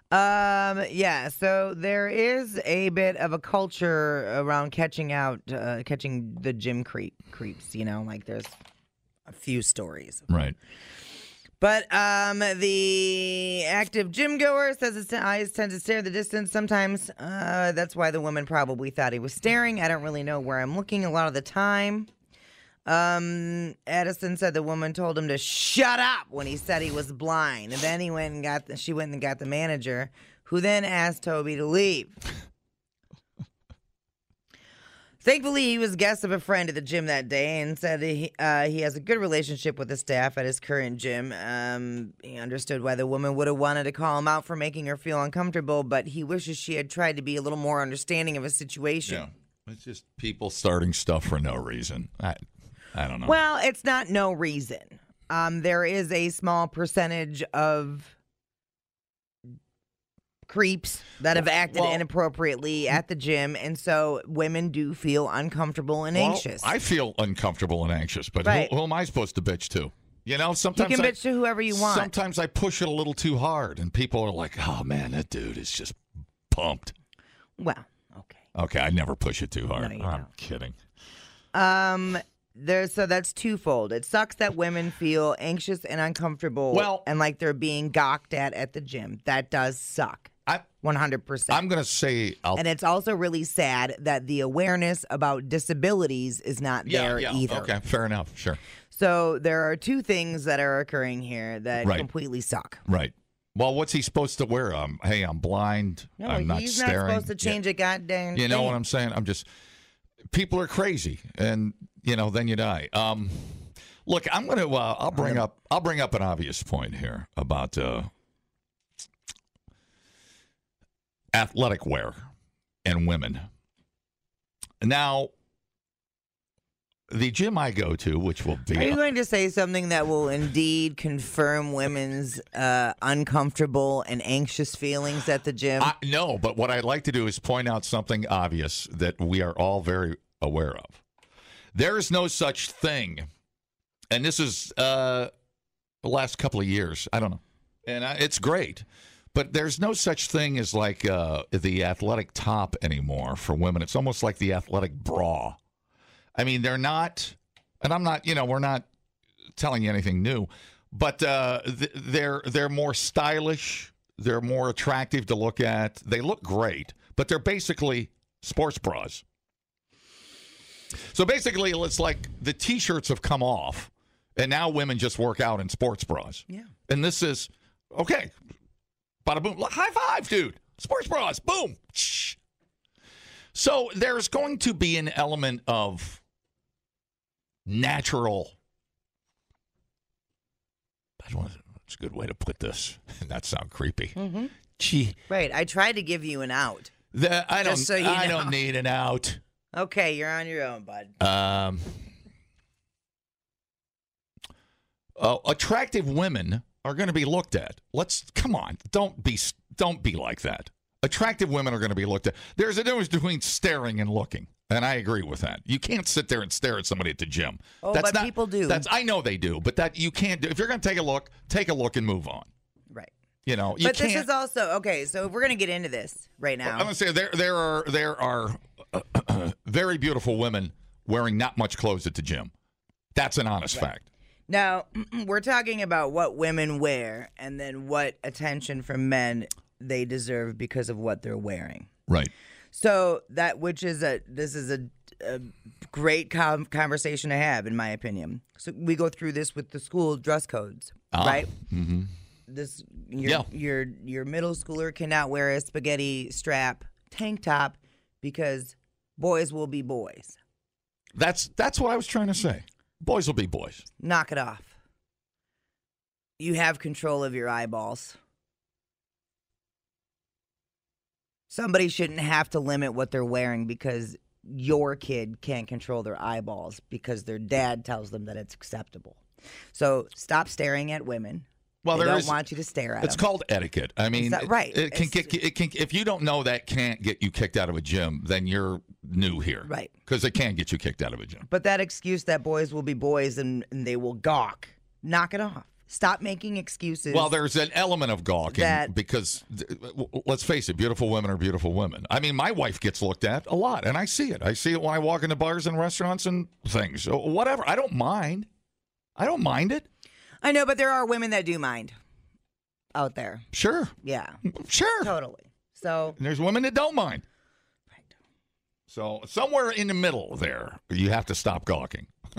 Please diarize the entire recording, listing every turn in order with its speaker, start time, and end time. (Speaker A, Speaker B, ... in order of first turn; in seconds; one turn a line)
Speaker A: 0.1-8.6
Speaker A: 9.3-10.2
Speaker B: 10.3-10.6
Speaker A: 11.6-22.1
Speaker A: 22.9-32.2
Speaker A: 35.2-49.3
Speaker B: 49.1-52.4
Speaker B: 52.9-53.3
Speaker A: 53.2-58.1
Speaker A: 60.5-66.7
Speaker B: 61.7-62.0
Speaker B: 66.2-71.2
Speaker A: 68.4-68.7
Speaker A: 70.8-72.1
Speaker B: 71.7-76.0
Speaker B: 76.5-76.9
Speaker A: 77.6-78.4
Speaker B: 78.5-80.8
Speaker A: 79.8-80.3
Speaker A: 81.5-90.3
Speaker B: 86.7-87.1
Speaker A: 90.8-91.6
Speaker B: 91.5-92.6
Speaker A: 92.6-97.7
Speaker B: 96.9-98.6
Speaker A: 98.9-102.8
Speaker B: 102.9-107.6
Speaker A: 106.2-108.8
Speaker B: 108.3-109.5
Speaker B: 110.3-118.1
Speaker A: 115.1-115.5
Speaker B: 121.3-122.3
Speaker B: 122.8-123.5
Speaker B: 124.8-125.3
Speaker B: 127.1-129.0
Speaker A: 128.8-135.9
Speaker B: 135.8-141.0
Speaker B: 141.7-143.3
Speaker B: 144.1-145.3
Speaker B: 146.0-155.6
Speaker B: 156.4-158.9
Speaker B: 159.6-169.2
Speaker B: 171.1-178.3
Speaker B: 179.2-182.4
Speaker B: 183.5-186.2
Speaker B: 187.7-188.5
Speaker B: 191.2-194.2
Speaker A: 194.2-194.5
Speaker B: 194.7-195.2
Speaker A: 195.3-196.9
Speaker B: 197.1-199.4
Speaker A: 197.6-198.5
Speaker A: 199.7-201.1
Speaker B: 201.2-202.1
Speaker B: 205.2-222.5
Speaker A: 217.8-218.8
Speaker B: 223.5-224.3
Speaker A: 223.8-226.9
Speaker B: 226.7-232.5
Speaker B: 233.2-234.1
Speaker A: 234.5-241.9
Speaker A: 242.7-251.5
Speaker B: 251.1-252.1
Speaker A: 252.5-260.4
Speaker B: 261.1-263.9
Speaker A: 264.0-264.7
Speaker A: 266.4-268.2
Speaker A: 271.5-279.2
Speaker A: 279.7-283.2
Speaker B: 281.8-282.4
Speaker B: 283.0-291.5
Speaker A: 284.1-285.4
Speaker A: 289.6-289.9
Speaker A: 291.5-297.3
Speaker B: 297.1-308.5
Speaker A: 298.5-298.9
Speaker B: 309.2-309.9
Speaker A: 310.4-311.9
Speaker A: 312.9-313.5
Speaker B: 313.5-313.9
Speaker A: 314.0-314.4
Speaker B: 314.4-315.1
Speaker A: 315.0-316.2
Speaker B: 316.2-317.2
Speaker B: 318.9-322.1